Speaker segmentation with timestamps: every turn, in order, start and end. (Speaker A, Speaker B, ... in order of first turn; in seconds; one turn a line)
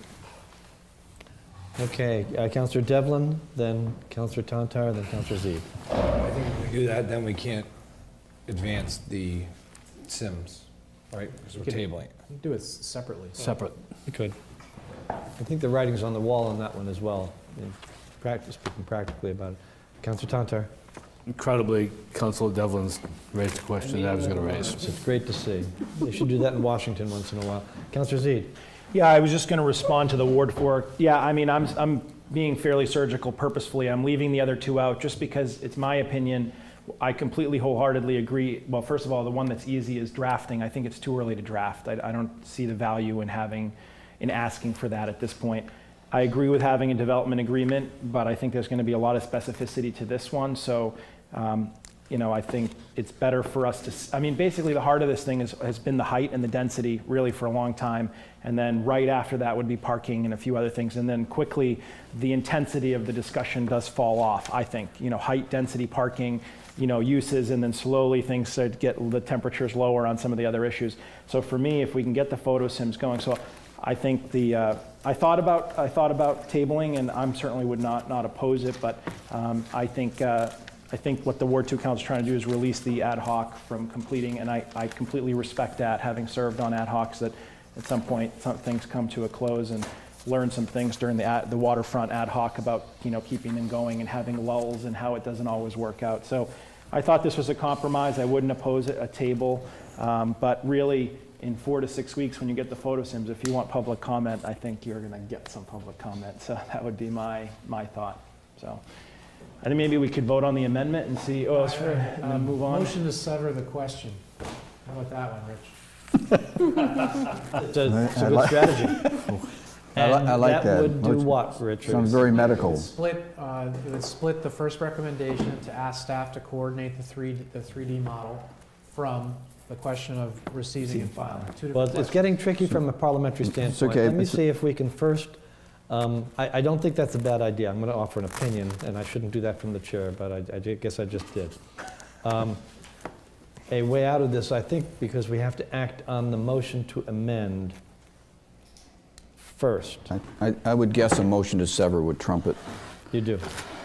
Speaker A: 1.8-5.7
Speaker A: 6.2-7.6
Speaker B: 6.3-7.5
Speaker B: 8.6-9.5
Speaker A: 10.1-10.5
Speaker C: 11.5-13.5
Speaker D: 13.4-13.8
Speaker A: 14.1-14.3
Speaker A: 15.4-20.7
Speaker D: 21.3-24.9
Speaker A: 24.9-28.5
Speaker E: 28.9-108.8
Speaker E: 109.6-113.0
Speaker C: 111.6-114.2
Speaker C: 114.8-115.8
Speaker A: 117.5-119.2
Speaker F: 117.9-119.2
Speaker A: 119.9-122.4
Speaker F: 119.9-122.9
Speaker C: 122.4-132.3
Speaker E: 130.8-131.5
Speaker A: 131.7-135.3
Speaker F: 133.5-134.4
Speaker A: 135.9-141.6
Speaker A: 142.2-142.6
Speaker A: 143.7-147.8
Speaker A: 149.4-150.1
Speaker F: 150.1-152.6
Speaker A: 153.1-153.5